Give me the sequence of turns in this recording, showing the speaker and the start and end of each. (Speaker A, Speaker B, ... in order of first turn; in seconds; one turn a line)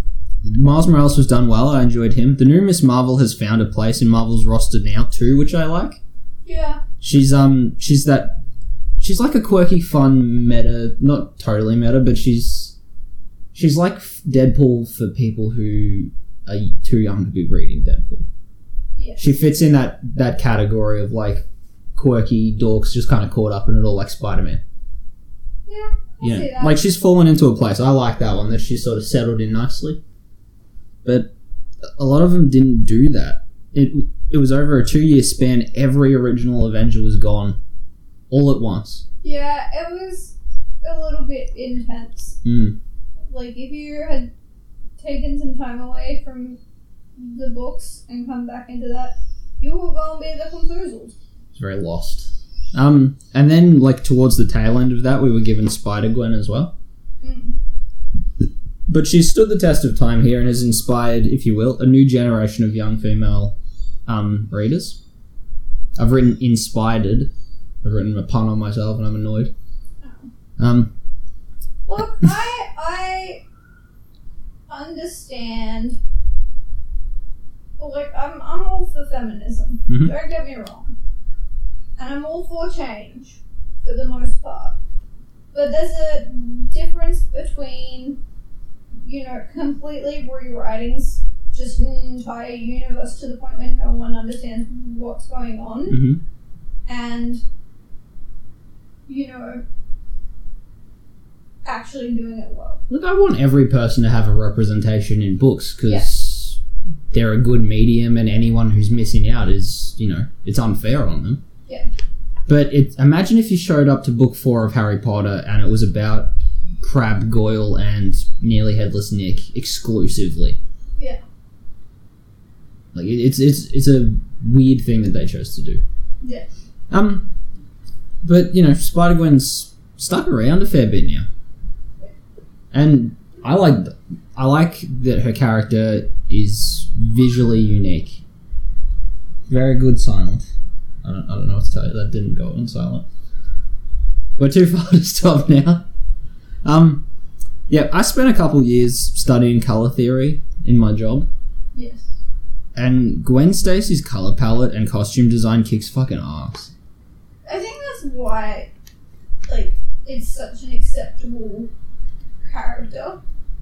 Speaker A: 0.4-6.0
Speaker B: 6.4-6.8
Speaker A: 7.0-8.4
Speaker A: 9.0-12.7
Speaker A: 13.5-18.2
Speaker B: 18.9-19.2
Speaker A: 19.2-24.6
Speaker B: 25.6-26.8
Speaker A: 26.2-30.0
Speaker A: 31.0-31.3
Speaker A: 32.0-37.6
Speaker A: 38.3-39.0
Speaker B: 39.2-42.4
Speaker A: 42.4-42.8
Speaker B: 43.3-44.3
Speaker B: 45.0-46.6
Speaker B: 47.2-51.1
Speaker A: 51.5-56.7
Speaker B: 57.2-57.6
Speaker A: 58.9-63.5
Speaker A: 64.1-65.0
Speaker A: 66.0-67.3
Speaker A: 67.8-69.5
Speaker B: 70.0-70.3
Speaker A: 70.6-70.9
Speaker B: 71.8-73.4
Speaker B: 74.7-76.0
Speaker B: 77.8-80.9
Speaker A: 79.9-80.1
Speaker B: 82.0-84.8
Speaker B: 85.5-88.2
Speaker B: 89.0-96.0
Speaker A: 95.9-96.2
Speaker B: 96.8-97.4
Speaker B: 99.1-99.6
Speaker B: 101.6-102.8
Speaker A: 102.9-106.6
Speaker A: 107.1-111.4
Speaker A: 112.5-120.6
Speaker A: 122.9-125.8
Speaker B: 126.2-126.5
Speaker A: 126.9-127.3
Speaker A: 128.2-131.2
Speaker A: 132.7-138.2
Speaker A: 139.5-140.5
Speaker A: 141.0-143.1
Speaker A: 144.4-145.8
Speaker A: 146.6-147.0
Speaker A: 147.7-151.3
Speaker B: 151.7-152.1
Speaker A: 152.7-156.7
Speaker B: 157.4-158.7
Speaker B: 159.5-161.7
Speaker B: 162.4-163.2